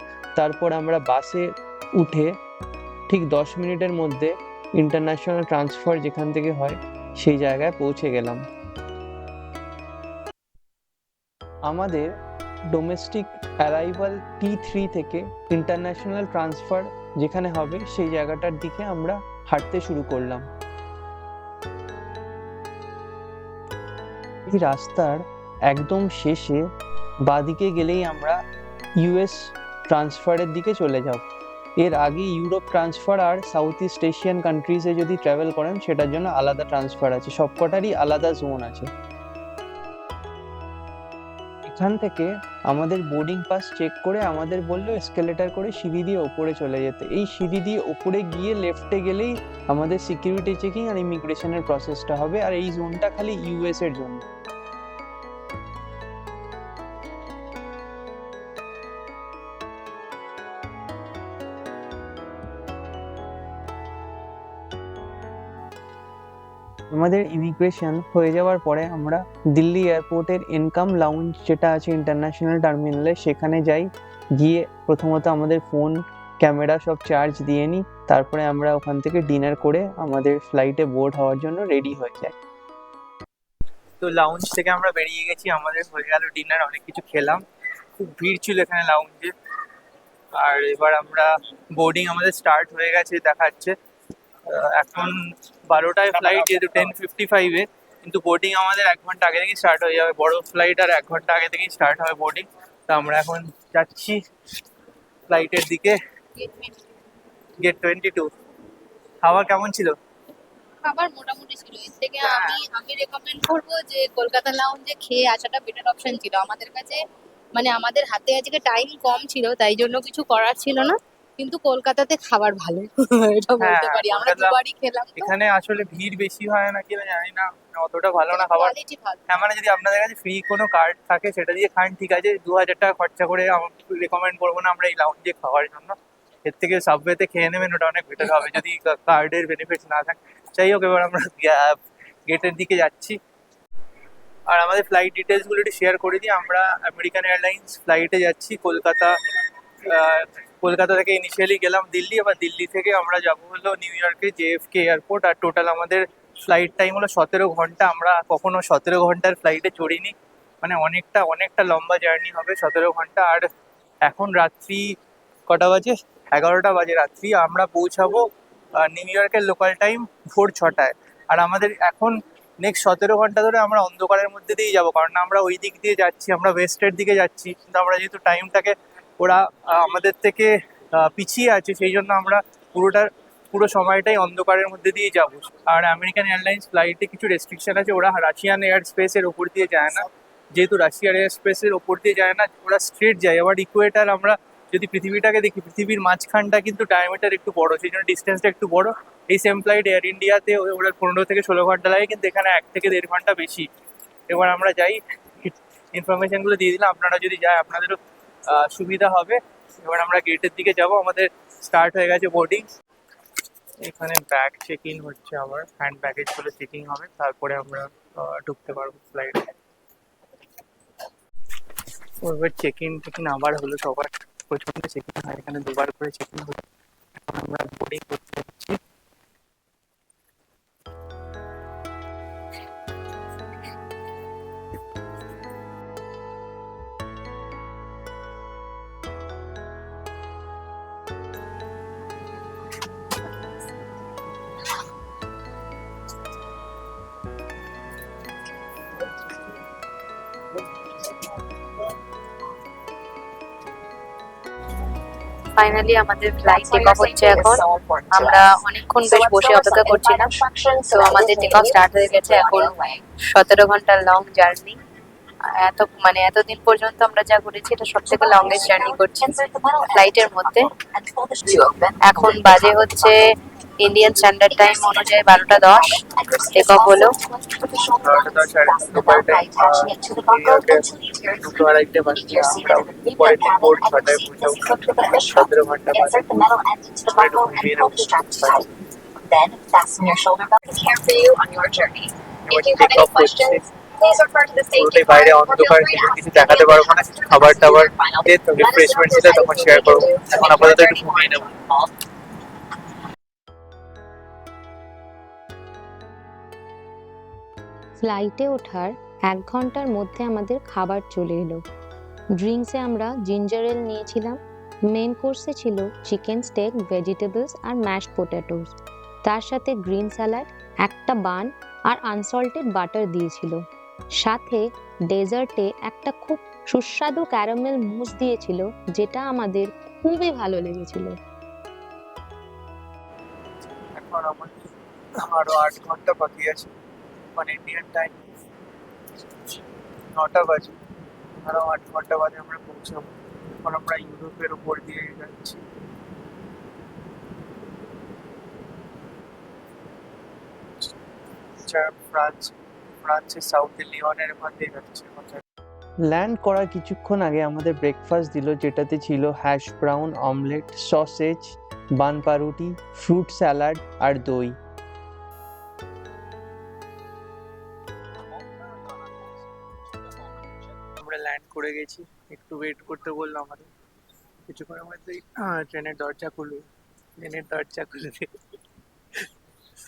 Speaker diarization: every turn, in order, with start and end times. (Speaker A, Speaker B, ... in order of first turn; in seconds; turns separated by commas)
Speaker A: 0.3-1.4, Speaker A: 2.0-2.3, Speaker A: 3.1-8.4, Speaker A: 11.7-12.1, Speaker A: 12.7-20.4, Speaker A: 24.5-26.6, Speaker A: 27.2-28.4, Speaker A: 29.0-31.2, Speaker A: 31.8-38.9, Speaker A: 41.7-54.2, Speaker A: 66.9-82.3, Speaker B: 84.0-87.4, Speaker B: 88.0-89.3, Speaker B: 90.3-93.7, Speaker B: 94.5-104.2, Speaker B: 105.3-106.0, Speaker C: 106.4-106.7, Speaker B: 107.6-108.3, Speaker B: 109.2-109.9, Speaker C: 110.8-117.0, Speaker B: 112.2-112.6, Speaker C: 117.5-125.3, Speaker B: 123.6-124.5, Speaker B: 125.2-128.7, Speaker C: 128.3-129.2, Speaker B: 129.3-141.8, Speaker B: 142.3-143.2, Speaker B: 144.5-149.1, Speaker B: 149.8-163.5, Speaker B: 164.0-164.9, Speaker B: 165.5-168.2, Speaker B: 168.8-203.7, Speaker B: 204.3-212.7, Speaker B: 213.8-219.5, Speaker B: 222.2-226.6, Speaker B: 227.2-228.8, Speaker C: 255.6-264.8, Speaker D: 256.4-263.0, Speaker C: 265.6-270.7, Speaker D: 268.0-273.2, Speaker C: 272.0-273.3, Speaker C: 273.8-277.2, Speaker D: 273.9-301.9, Speaker B: 278.0-280.9, Speaker B: 281.4-286.4, Speaker B: 287.0-288.6, Speaker B: 292.5-293.6, Speaker B: 294.6-301.5, Speaker E: 308.0-311.6, Speaker E: 312.4-314.4, Speaker E: 314.9-318.7, Speaker E: 319.3-323.6, Speaker E: 324.2-331.1, Speaker C: 330.6-331.0, Speaker B: 333.6-334.5, Speaker B: 335.3-336.7, Speaker B: 337.4-338.3, Speaker B: 340.1-340.8, Speaker B: 341.4-343.1, Speaker B: 343.6-345.6, Speaker B: 351.6-355.4, Speaker A: 356.1-364.5, Speaker B: 368.2-369.4, Speaker B: 371.0-373.7, Speaker B: 374.5-376.6, Speaker B: 377.2-378.3